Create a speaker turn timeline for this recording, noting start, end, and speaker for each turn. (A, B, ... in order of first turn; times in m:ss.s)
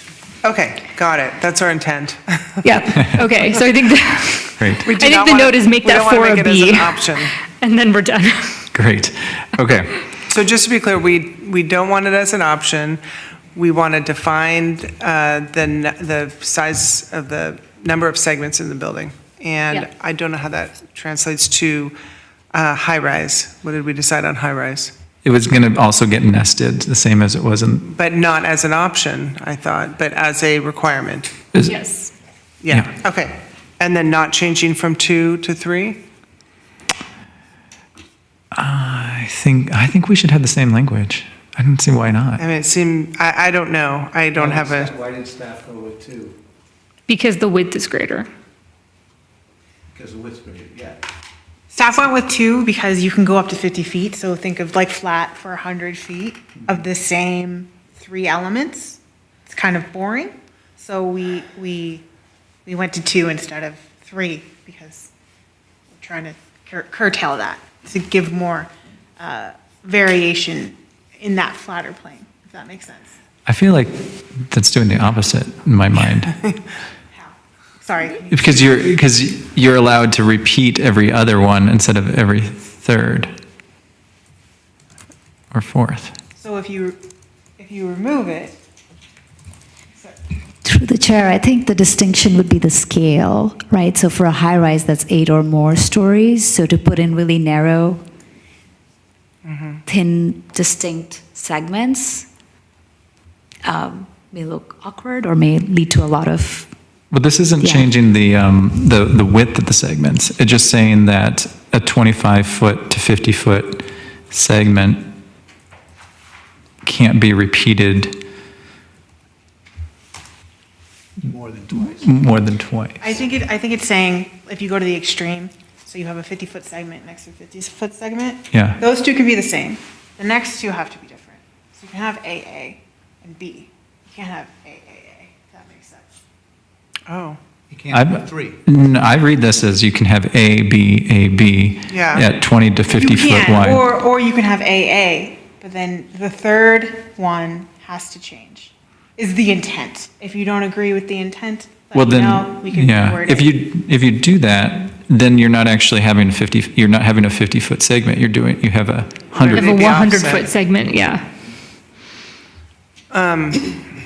0:00.4-0:02.6 A
0:02.6-0:08.7 B
0:04.6-0:04.8 C
0:04.8-0:07.3 A
0:08.7-0:10.0 C
0:10.3-0:13.0 A
0:13.5-0:21.9 A
0:22.5-0:24.9 A
0:25.2-0:27.8 C
0:27.8-0:31.3 A
0:31.6-0:32.1 B
0:32.6-0:36.0 A
0:38.5-0:42.4 C
0:42.4-0:45.0 A
0:44.4-0:46.4 D
0:47.1-0:48.3 B
0:49.9-0:51.0 D
0:51.7-1:02.0 E
1:02.6-1:05.1 E
1:06.0-1:13.1 E
1:13.4-1:14.0 C
1:14.5-1:16.4 C
1:17.1-1:18.9 E
1:18.3-1:23.3 C
1:25.5-1:26.1 C
1:26.4-1:27.0 E
1:27.6-1:28.6 E
1:30.6-1:38.0 F
1:39.4-1:39.8 A
1:39.9-1:42.3 F
1:43.6-1:46.7 F
1:47.1-1:55.1 C
1:47.6-1:47.9 F
1:56.8-1:58.2 C
2:01.2-2:01.7 D
2:01.7-2:03.0 C
2:03.0-2:16.1 E
2:08.5-2:08.8 C
2:17.1-2:17.4 A
2:17.7-2:18.5 D
2:17.9-2:23.9 C
2:21.9-2:22.2 A
2:23.0-2:33.5 E
2:31.9-2:40.0 C
2:39.4-2:40.5 A
2:39.5-2:41.2 B
2:43.1-2:43.8 A